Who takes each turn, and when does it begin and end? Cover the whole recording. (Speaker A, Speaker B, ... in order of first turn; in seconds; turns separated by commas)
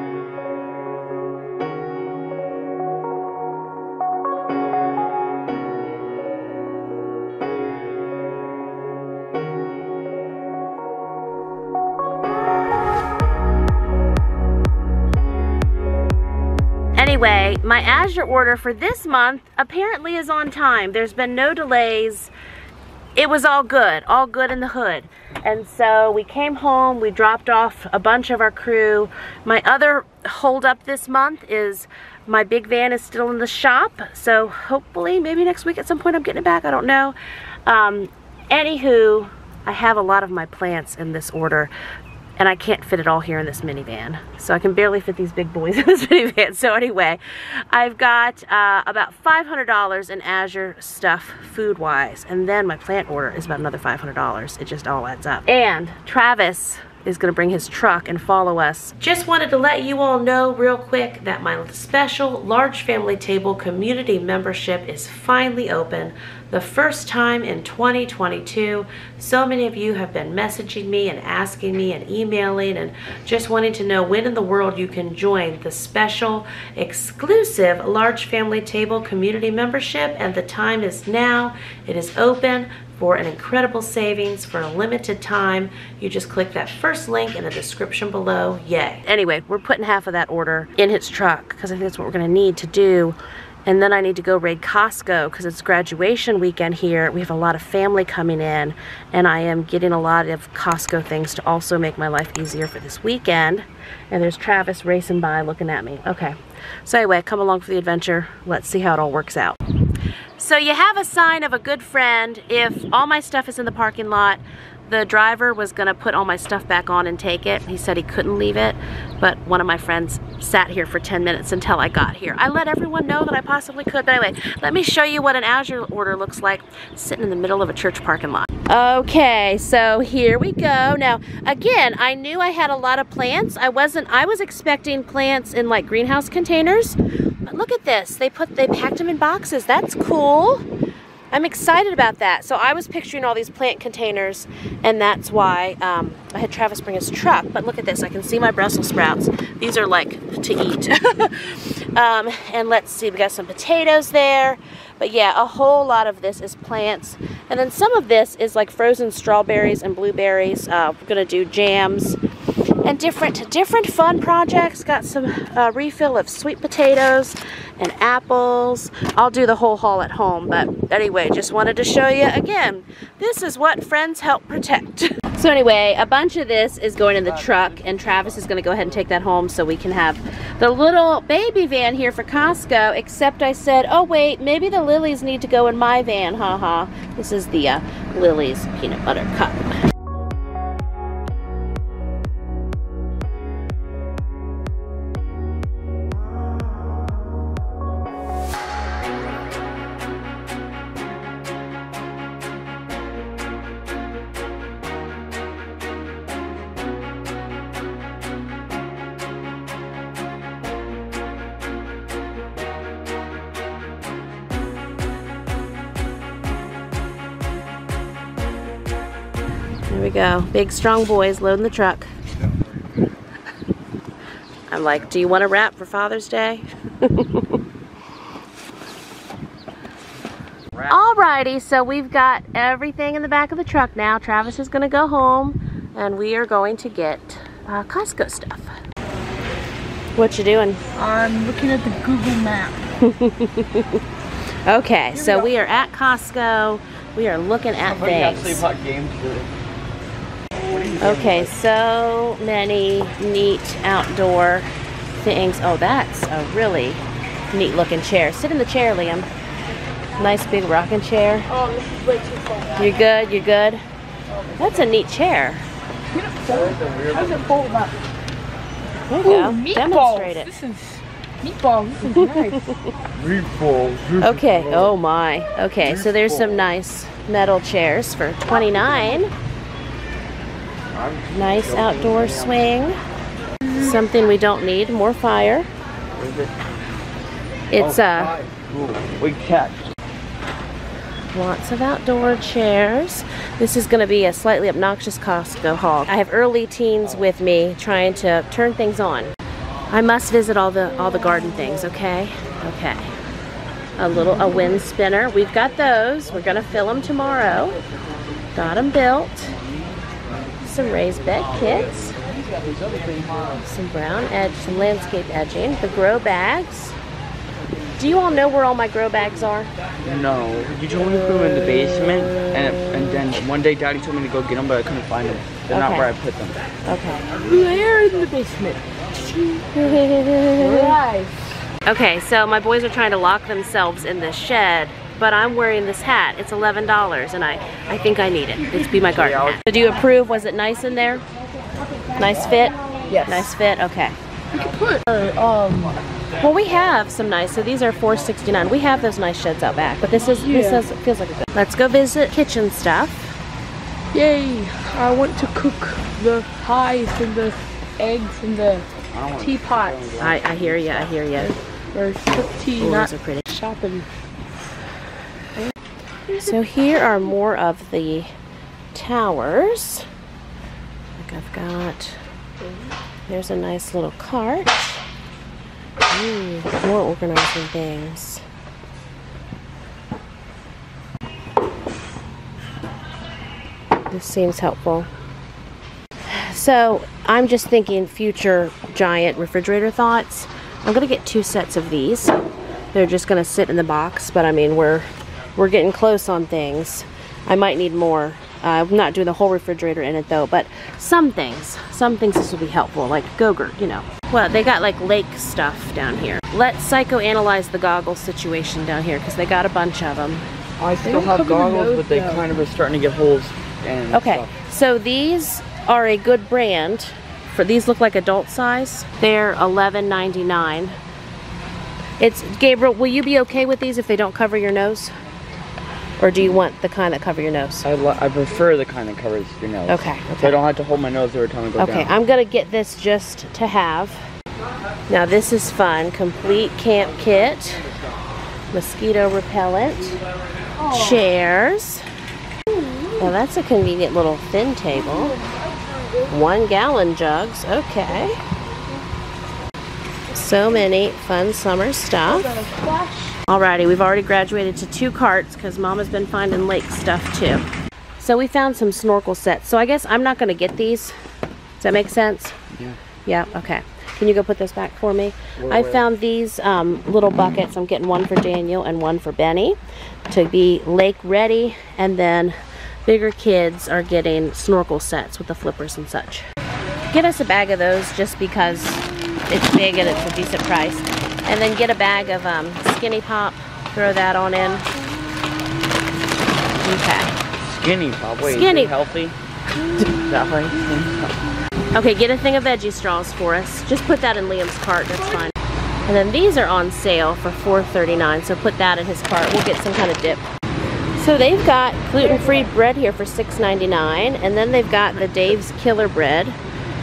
Speaker A: 17.0-22.3, Speaker A: 23.2-37.1, Speaker A: 37.7-41.7, Speaker A: 42.4-47.2, Speaker A: 47.7-109.6, Speaker A: 110.4-140.7, Speaker A: 141.3-162.2, Speaker A: 162.8-189.8, Speaker A: 219.9-222.1, Speaker A: 224.7-227.6, Speaker A: 230.9-238.7, Speaker A: 240.2-240.8, Speaker B: 240.9-242.8, Speaker A: 243.0-244.1, Speaker A: 244.7-248.6, Speaker B: 245.2-245.5, Speaker C: 247.8-249.5, Speaker C: 250.7-251.5, Speaker A: 251.0-259.3, Speaker A: 260.2-261.5, Speaker B: 261.5-262.9, Speaker A: 262.8-263.8, Speaker A: 264.6-265.7, Speaker B: 266.1-267.9, Speaker A: 269.1-270.5, Speaker B: 269.2-272.7, Speaker A: 272.1-273.0, Speaker C: 273.2-274.3, Speaker A: 274.2-279.3, Speaker A: 281.3-283.0, Speaker A: 283.7-285.7, Speaker C: 286.2-286.5, Speaker A: 287.7-288.4, Speaker C: 287.8-289.9, Speaker A: 291.3-299.3, Speaker A: 299.9-303.1, Speaker A: 304.0-307.8, Speaker A: 308.6-309.6, Speaker A: 310.6-312.2, Speaker A: 313.6-317.0, Speaker A: 318.0-319.7, Speaker C: 320.1-326.6, Speaker A: 325.7-326.1, Speaker A: 326.9-327.3, Speaker B: 327.4-329.7, Speaker A: 329.8-331.0, Speaker B: 330.6-331.5, Speaker A: 331.9-341.2, Speaker C: 339.0-339.6, Speaker A: 342.1-344.2, Speaker B: 343.1-343.5, Speaker B: 344.5-346.0, Speaker A: 346.4-353.3, Speaker B: 350.3-350.9, Speaker B: 354.1-358.9, Speaker C: 359.1-361.2, Speaker B: 359.4-360.1, Speaker A: 360.2-361.5, Speaker B: 361.4-364.1, Speaker A: 362.8-363.4, Speaker B: 366.3-366.6, Speaker A: 366.4-368.3, Speaker A: 368.9-370.1, Speaker A: 371.2-372.2, Speaker A: 373.3-375.0, Speaker A: 376.1-378.4, Speaker A: 384.1-385.1, Speaker A: 386.3-410.5, Speaker C: 410.8-414.5, Speaker B: 411.0-412.4, Speaker A: 414.1-421.0, Speaker A: 422.2-425.1, Speaker A: 426.2-427.9, Speaker C: 427.8-432.1, Speaker A: 429.9-430.6, Speaker A: 431.8-434.2, Speaker A: 435.1-437.9, Speaker A: 438.7-440.2, Speaker B: 440.8-441.2, Speaker A: 440.9-442.1, Speaker A: 443.2-445.4, Speaker B: 445.3-446.0, Speaker A: 446.3-448.4, Speaker A: 450.3-452.5, Speaker B: 452.3-453.4, Speaker A: 453.5-457.6, Speaker A: 458.2-461.1, Speaker A: 461.8-462.7, Speaker A: 463.2-469.8, Speaker C: 465.6-466.1, Speaker A: 470.3-476.4, Speaker A: 477.1-484.9, Speaker A: 486.8-487.4, Speaker C: 487.6-489.4, Speaker A: 488.4-488.9, Speaker C: 490.1-491.4, Speaker A: 491.9-495.6, Speaker A: 496.1-500.4, Speaker A: 501.2-506.6